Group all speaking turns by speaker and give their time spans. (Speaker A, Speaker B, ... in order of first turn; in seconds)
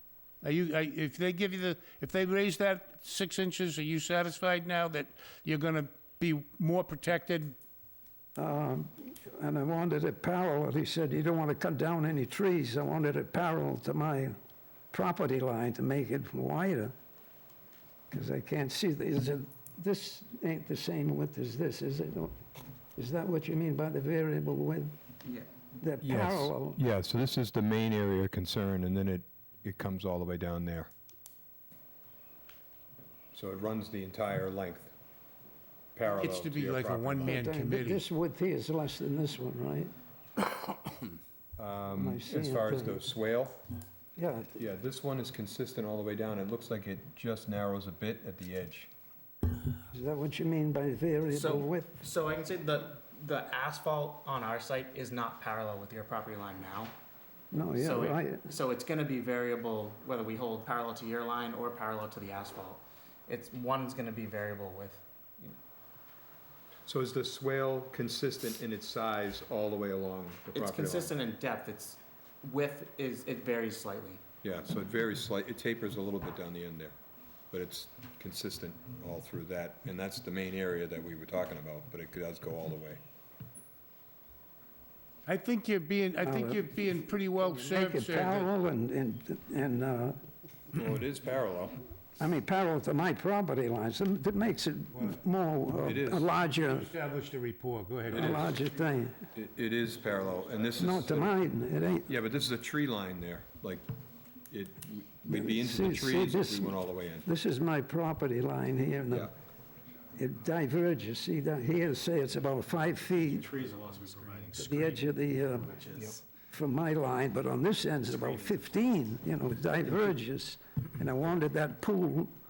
Speaker A: 0.4-7.6, 36.2-38.0, 85.3-88.5, 96.6-98.5
Speaker B: 8.4-14.3, 14.9-16.9, 18.1-22.4, 23.0-24.9, 25.8-26.8, 37.2-39.9, 42.0-43.0, 44.2-44.6, 49.9-52.0, 57.5-58.5, 86.2-86.8, 87.4-90.2, 92.2-96.9, 98.1-99.2, 100.8-102.1, 105.3-109.3, 110.2-113.5, 114.5-115.8, 116.5-122.3
Speaker C: 26.0-30.9, 33.3-34.9, 36.0-37.4, 41.6-43.6, 44.6-48.9, 66.9-71.1, 74.4-77.0, 77.5-83.0, 90.7-91.8, 95.8-96.3, 98.1-98.6, 99.3-101.3, 102.1-103.9, 104.5-107.3
Speaker D: 51.3-56.9, 57.8-65.6, 70.5-74.2
Speaker E: 113.3-115.1, 115.7-116.2, 118.1-118.5